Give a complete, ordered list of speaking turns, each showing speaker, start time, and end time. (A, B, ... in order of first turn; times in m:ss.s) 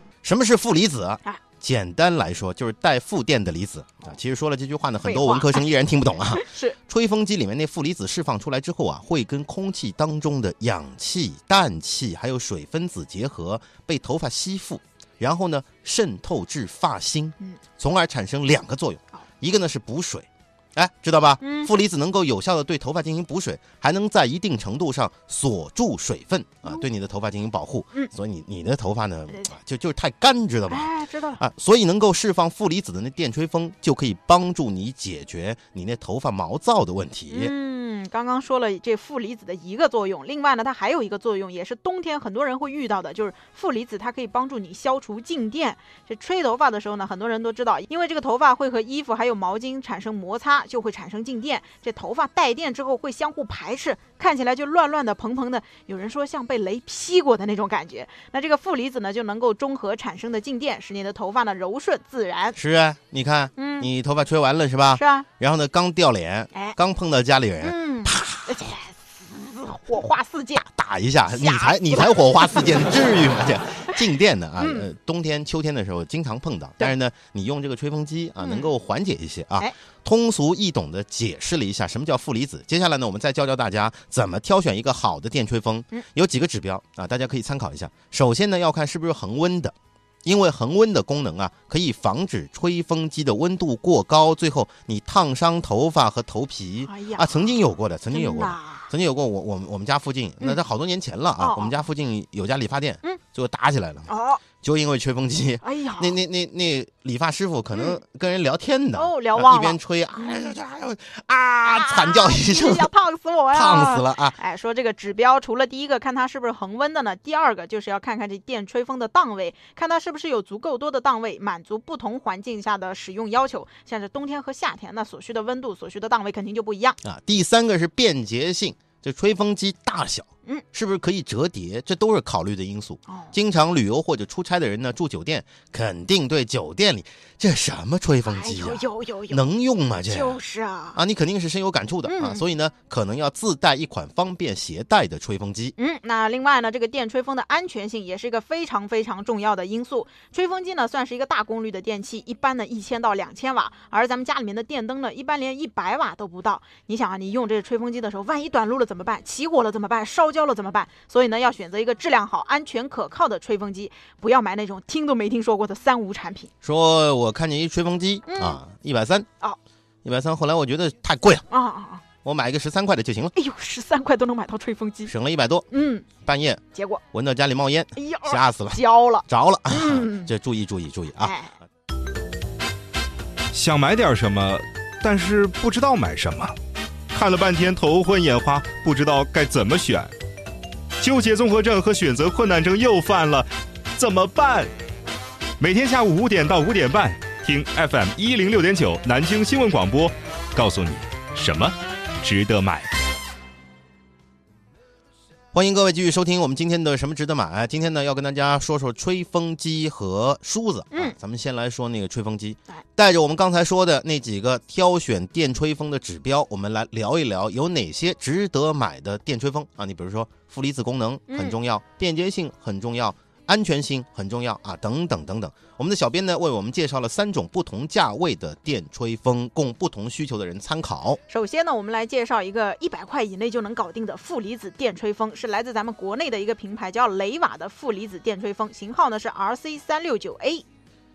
0:00.2-0:37.5 A
0:05.0-0:05.6 B
0:06.3-0:06.8 B
0:21.4-0:21.7 B
0:30.7-0:31.4 B
0:37.3-1:02.6 B
1:02.5-1:08.6 A
1:03.6-1:03.9 B
1:05.0-1:05.3 B
1:07.6-1:10.6 B
1:10.6-1:44.1 A
1:11.3-1:12.9 B
1:14.6-1:14.9 B
1:18.4-1:18.7 B
1:36.9-1:37.5 B
1:38.1-1:38.9 B
1:41.4-1:41.8 B
1:44.1-1:44.4 B
1:44.6-1:52.9 A
1:45.6-1:46.2 B
1:48.9-1:49.8 B
1:51.6-2:07.0 B
1:53.5-1:54.4 A
2:07.0-2:20.4 A
2:13.1-2:13.3 B
2:18.2-2:19.4 B
2:20.1-2:21.0 B
2:20.9-2:25.7 A
2:22.0-2:22.4 B
2:25.8-2:46.5 B
2:46.6-2:49.3 A
2:48.2-2:48.6 B
2:50.0-2:51.4 A
2:51.5-2:52.0 B
2:52.2-2:53.3 A
2:53.3-2:55.1 B
2:55.1-2:55.7 A
2:55.7-2:56.0 B
2:56.2-3:01.4 A
2:56.7-2:57.0 B
2:57.9-3:00.3 B
3:01.2-3:01.6 B
3:03.5-3:06.6 C
3:07.1-3:10.1 C
3:11.0-3:14.7 C
3:15.6-3:22.9 C
3:25.5-3:51.2 A
3:41.3-3:41.6 B
3:51.3-4:00.6 B